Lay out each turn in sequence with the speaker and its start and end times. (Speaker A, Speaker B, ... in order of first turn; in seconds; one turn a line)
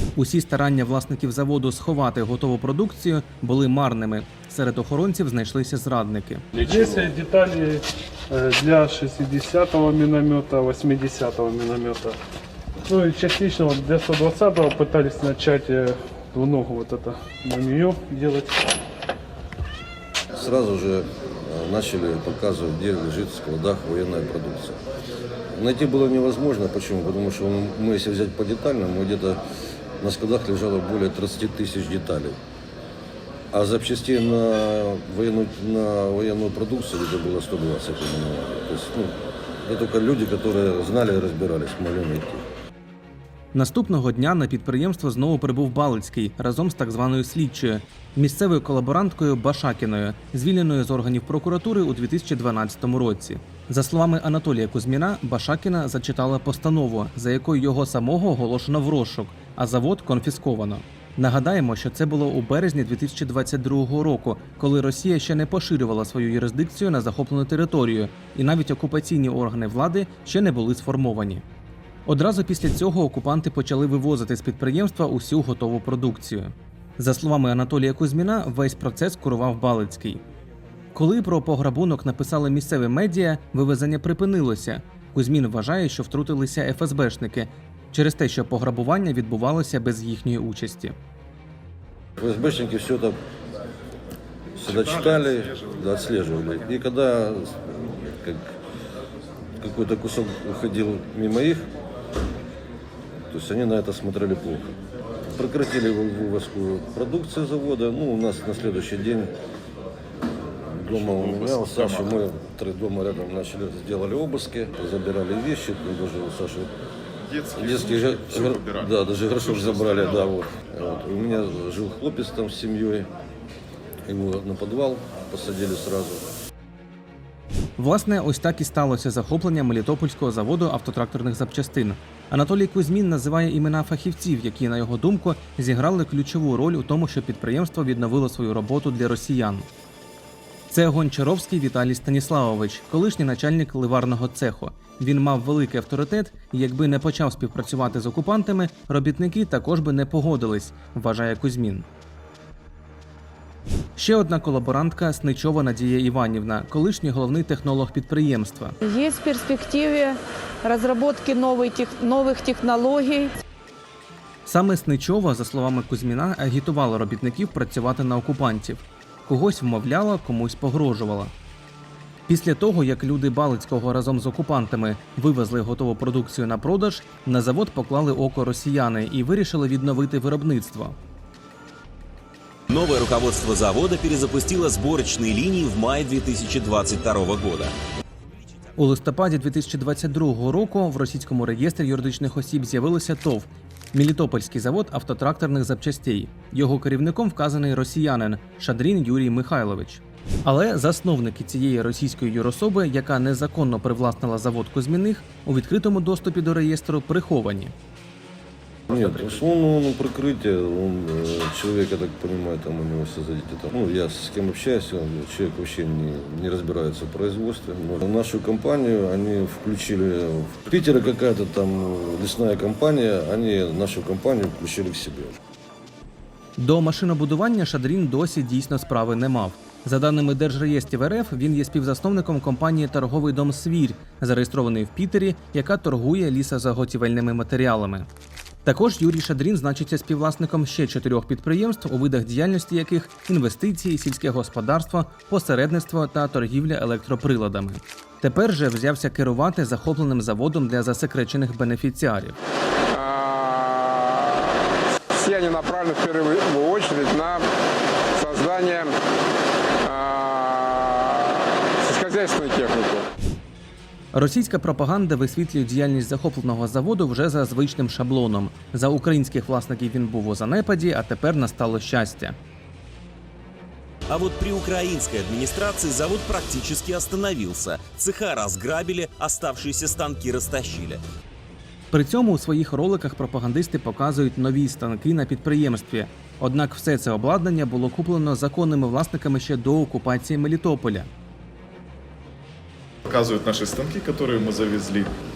Speaker A: 0.2-6.5
Speaker B: 6.5-12.2
Speaker B: 12.9-18.7
Speaker C: 20.3-24.8
Speaker C: 25.5-29.4
Speaker C: 30.0-32.4
Speaker C: 33.5-42.4
Speaker A: 43.5-71.4
Speaker A: 72.1-80.2
Speaker A: 80.9-91.0
Speaker C: 92.2-93.2
Speaker C: 94.6-98.5
Speaker D: 94.6-95.8
Speaker C: 99.6-101.7
Speaker C: 103.3-104.6
Speaker C: 105.3-109.3
Speaker C: 110.7-116.7
Speaker D: 110.9-112.2
Speaker D: 117.2-120.4
Speaker C: 117.6-123.1
Speaker C: 124.1-126.2
Speaker A: 127.8-139.7
Speaker A: 140.7-151.9
Speaker A: 154.0-158.8
Speaker E: 158.8-163.3
Speaker A: 164.5-171.3
Speaker A: 172.3-181.0
Speaker F: 182.7-187.7
Speaker A: 188.8-207.7
Speaker C: 208.9-225.4
Speaker A: 226.6-238.1
Speaker A: 238.7-252.4
Speaker G: 252.9-254.5
Speaker G: 255.1-257.4
Speaker G: 258.1-258.9
Speaker G: 259.8-263.1
Speaker A: 264.1-272.4
Speaker F: 274.1-281.0
Speaker A: 281.9-291.1
Speaker D: 293.1-295.1